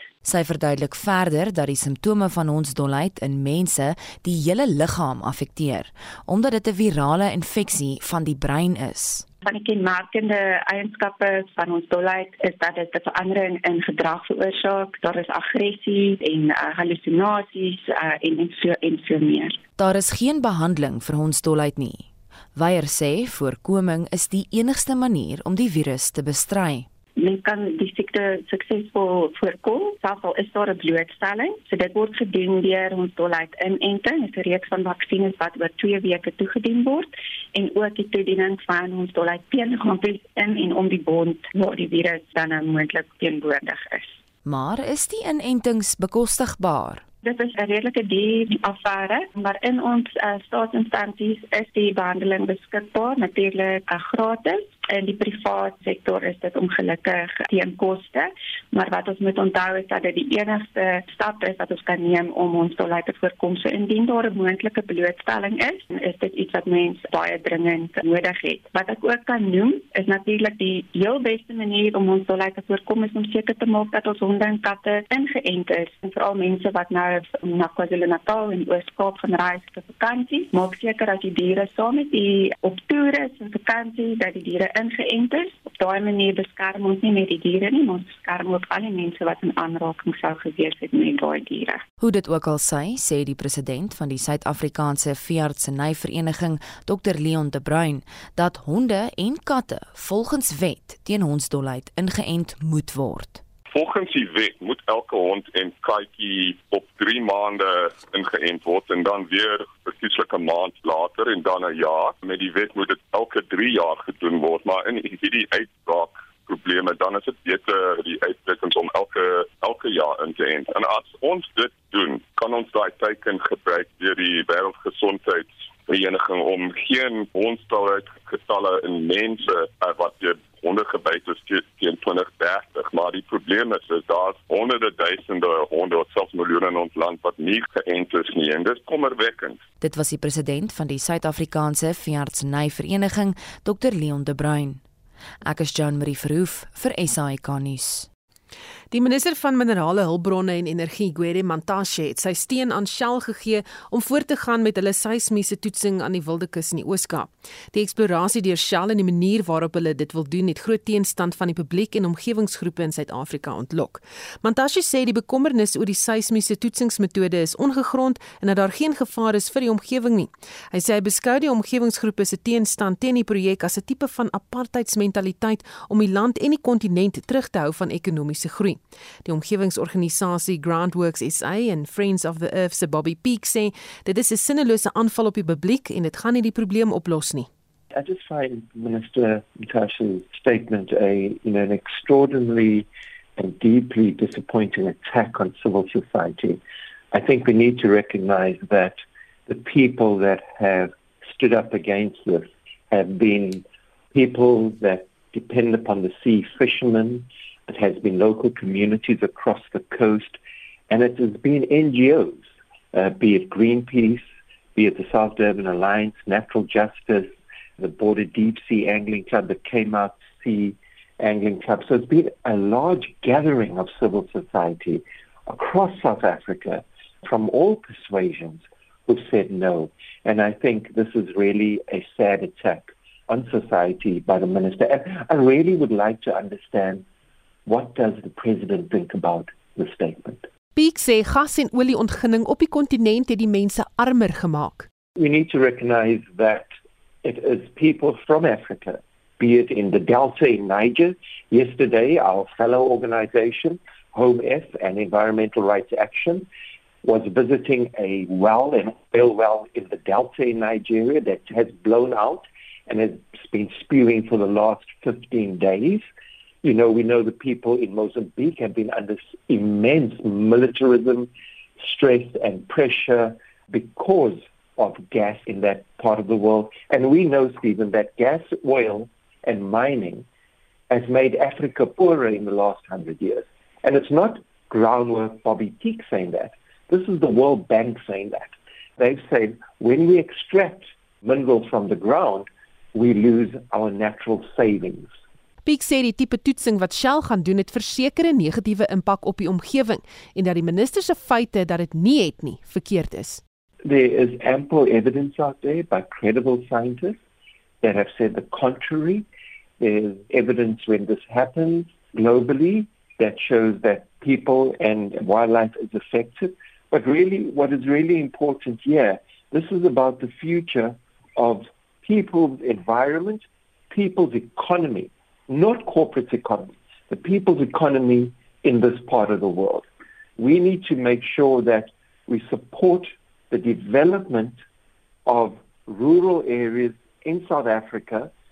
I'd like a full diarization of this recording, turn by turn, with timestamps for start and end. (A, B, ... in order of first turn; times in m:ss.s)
0:00.2-0:09.2 A
0:09.4-0:19.6 B
0:19.8-0:26.9 A
0:27.2-0:44.2 B
0:44.4-0:47.0 A
0:47.2-1:31.8 B
1:32.0-1:43.4 A
1:43.7-2:19.6 C
2:19.8-2:24.8 A
2:25.4-2:28.1 A
2:28.9-3:07.5 D
3:07.9-3:16.6 E
3:17.1-3:30.4 E
3:30.9-3:34.2 E
3:34.7-3:57.0 E
3:57.6-4:00.4 E
4:00.8-4:04.9 D
4:05.2-4:06.7 E
4:07.2-4:16.4 E
4:17.0-4:26.0 E
4:26.6-4:40.2 E
4:40.9-4:55.1 E
4:55.6-5:03.4 D
5:03.8-5:07.2 E
5:07.8-5:09.2 E
5:09.8-5:29.8 E
5:30.4-5:34.6 E
5:35.2-5:38.3 E